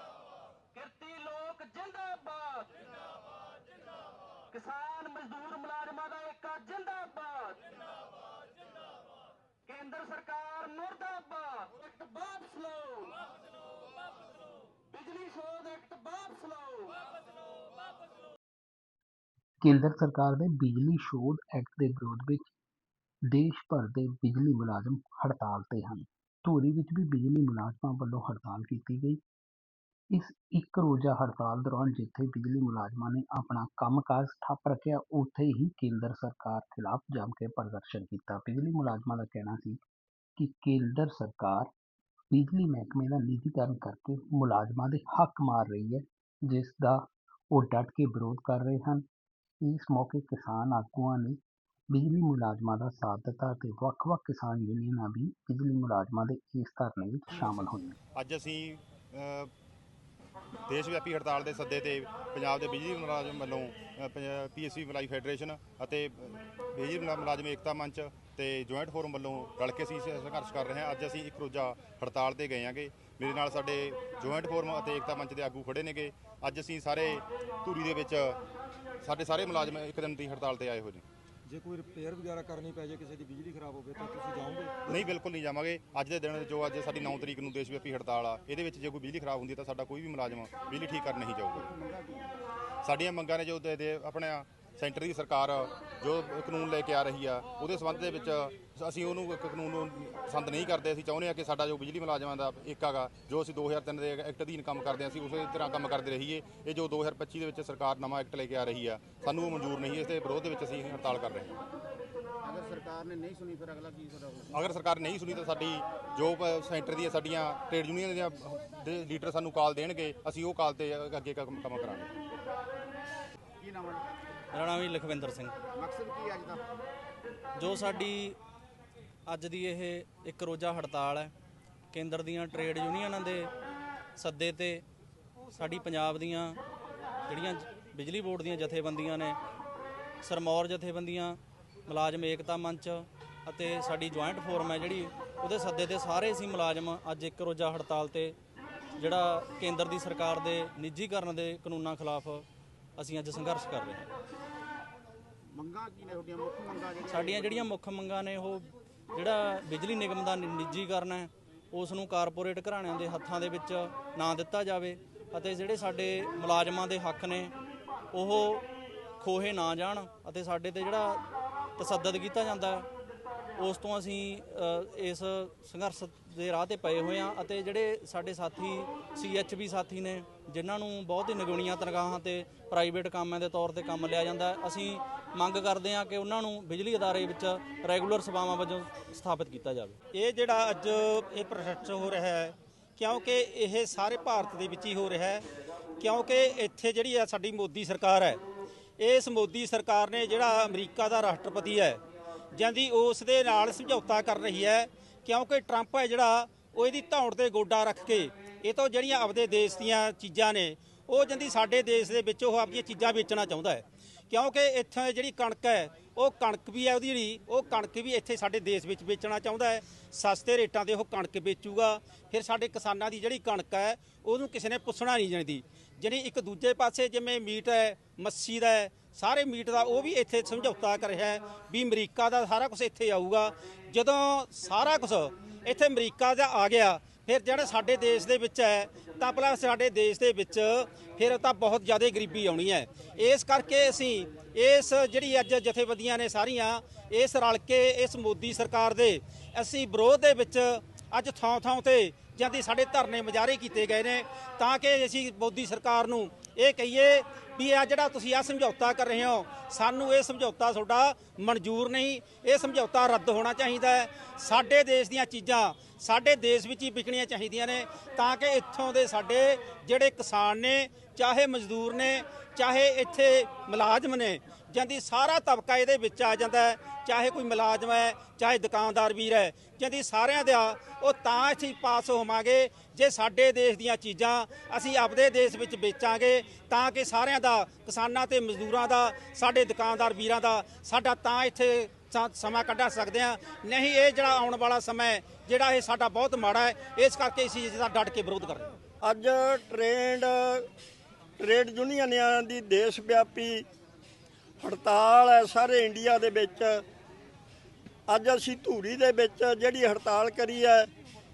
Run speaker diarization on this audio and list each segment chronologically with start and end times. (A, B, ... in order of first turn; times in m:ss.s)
0:00.7-0:02.8 A
0:04.5-0:07.8 A
0:09.7-0:13.2 A
0:14.9-0:17.0 A
0:19.6-0:22.5 B
0:23.3-0:29.2 B
0:30.1-0:39.8 B
0:40.4-0:41.7 B
0:42.3-0:49.0 B
0:49.6-0:51.4 B
0:51.9-0:58.0 B
0:58.2-0:59.5 C
1:00.7-1:18.4 C
1:19.0-1:21.0 C
1:21.5-1:25.1 D
1:24.9-1:31.7 C
1:32.8-1:51.6 C
1:52.4-1:54.4 E
1:54.5-2:02.1 C
2:03.6-2:04.0 E
2:04.5-2:05.5 F
2:05.8-2:06.6 E
2:07.6-2:08.4 F
2:09.3-2:11.3 F
2:11.9-2:13.5 F
2:14.2-2:14.8 F
2:15.5-2:16.6 F
2:17.3-2:19.4 F
2:20.2-2:28.3 F
2:29.0-2:34.1 F
2:35.5-2:37.5 E
2:37.0-2:47.5 F
2:48.1-2:48.7 F
2:49.2-2:51.2 F
2:51.8-2:52.9 F
2:53.6-3:10.0 F
3:10.1-3:15.4 G
3:16.0-3:18.4 G
3:19.0-3:22.0 G
3:22.5-4:58.8 G
4:59.0-5:00.7 H
5:01.4-5:03.6 H
5:04.6-5:06.8 H
5:08.1-5:10.9 H